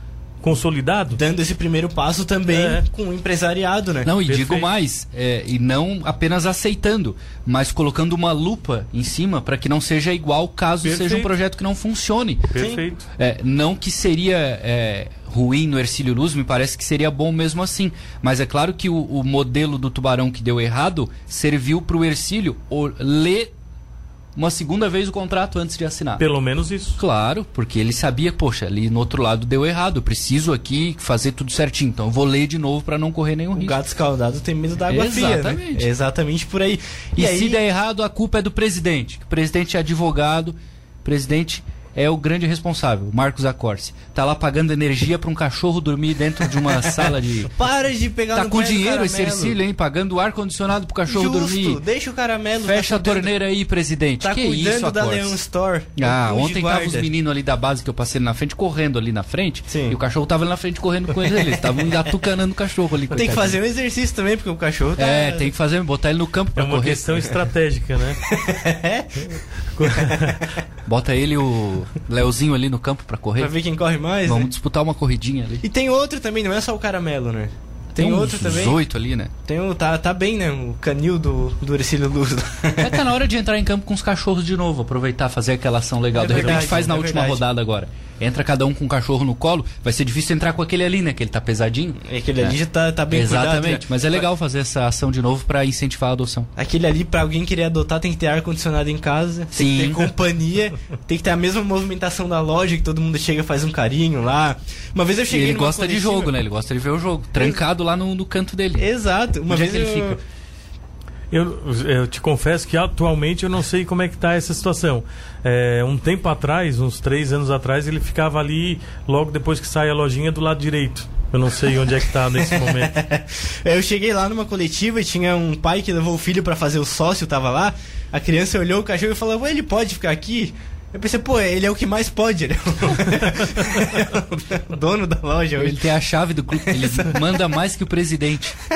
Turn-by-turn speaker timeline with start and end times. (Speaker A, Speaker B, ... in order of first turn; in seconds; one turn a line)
Speaker A: 0.4-1.2
Speaker B: 1.1-4.1
Speaker A: 2.5-2.8
Speaker C: 4.0-12.5
Speaker A: 4.2-4.7
Speaker A: 10.8-11.3
Speaker A: 12.5-13.1
Speaker B: 12.6-12.8
Speaker C: 13.2-23.5
Speaker C: 24.4-26.2
Speaker A: 26.2-27.0
Speaker C: 26.9-33.8
Speaker B: 33.5-37.6
Speaker C: 34.9-35.9
Speaker C: 37.2-47.5
Speaker B: 46.6-49.6
Speaker C: 48.3-51.8
Speaker B: 51.1-53.3
Speaker C: 52.6-55.4
Speaker B: 54.2-57.1
Speaker C: 56.0-63.6
Speaker B: 59.7-60.0
Speaker B: 63.1-65.5
Speaker C: 65.0-67.3
Speaker A: 66.6-68.2
Speaker B: 68.2-70.3
Speaker A: 69.8-70.4
Speaker C: 70.8-73.5
Speaker B: 73.4-74.5
Speaker C: 74.2-75.6
Speaker B: 75.6-78.8
Speaker C: 77.9-79.3
Speaker B: 79.4-83.0
Speaker C: 82.8-92.5
Speaker B: 86.1-87.4
Speaker B: 92.0-94.2
Speaker C: 93.1-96.5
Speaker B: 96.5-106.3
Speaker C: 99.5-100.1
Speaker C: 105.3-108.9
Speaker B: 108.8-110.2
Speaker C: 109.5-110.2
Speaker A: 111.3-122.9
Speaker B: 122.5-135.8
Speaker C: 135.6-138.6
Speaker B: 136.5-137.4